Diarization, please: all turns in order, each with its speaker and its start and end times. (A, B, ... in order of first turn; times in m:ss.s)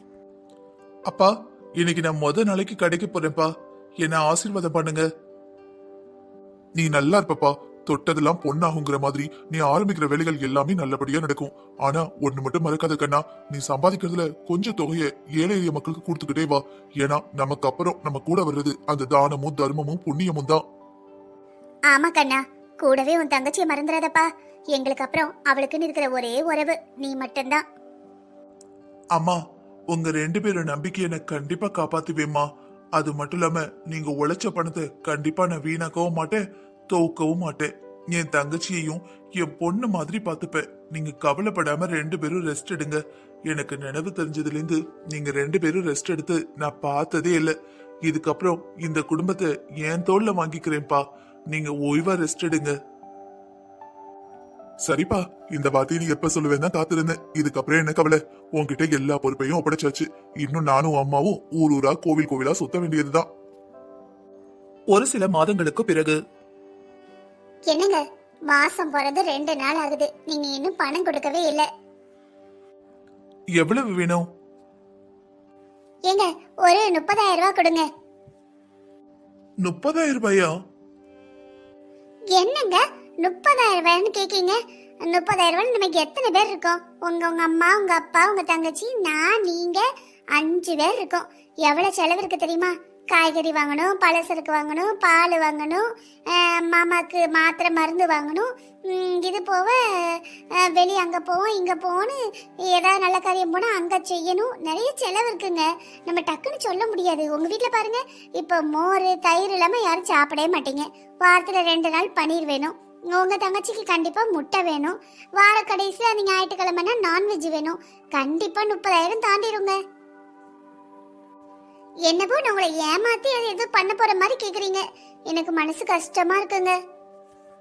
0:01.1-0:05.0 A
0:06.8-0:20.6 A
0:21.9-0:27.6 B
0:29.2-0:29.4 A
0:29.9-0:52.8 A
0:54.8-1:03.3 A
1:04.9-1:06.2 A
1:07.7-1:11.7 B
1:13.6-1:14.3 A
1:16.1-1:17.9 B
1:19.6-1:20.5 A
1:22.4-1:59.8 B
2:02.1-2:06.8 B